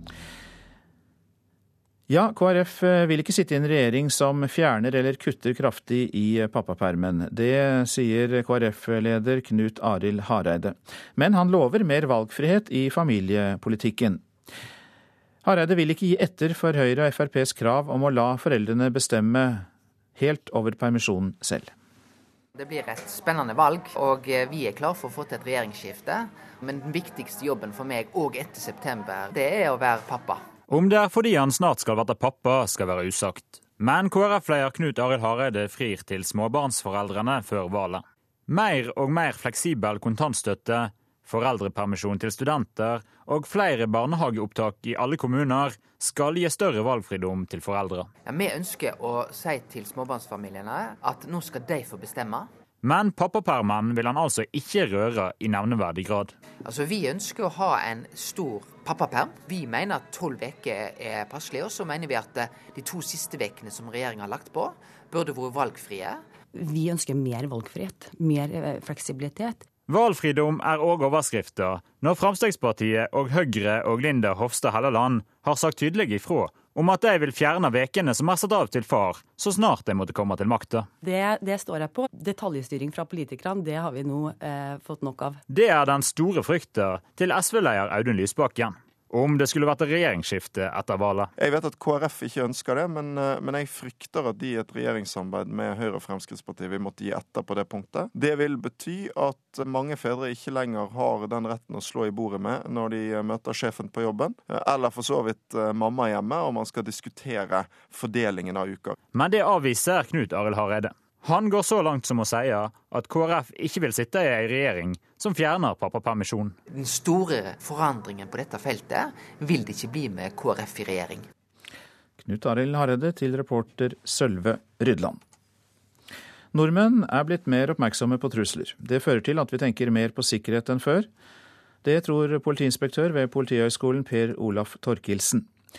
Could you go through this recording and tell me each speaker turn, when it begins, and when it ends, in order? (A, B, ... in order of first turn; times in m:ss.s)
0:02.1-0:14.2 A
0:15.4-0:21.7 A
0:22.5-0:30.4 B
0:30.7-0:48.1 C
0:48.2-0:52.5 B
0:52.8-0:56.3 C
0:56.6-1:06.2 B
1:06.8-1:09.4 D
1:09.9-1:20.9 C
1:25.5-1:31.3 C
1:31.4-1:49.0 E
1:49.1-1:56.5 C
1:56.7-2:01.2 B
2:02.2-2:05.2 A
2:06.5-2:11.1 A
2:11.8-2:15.4 A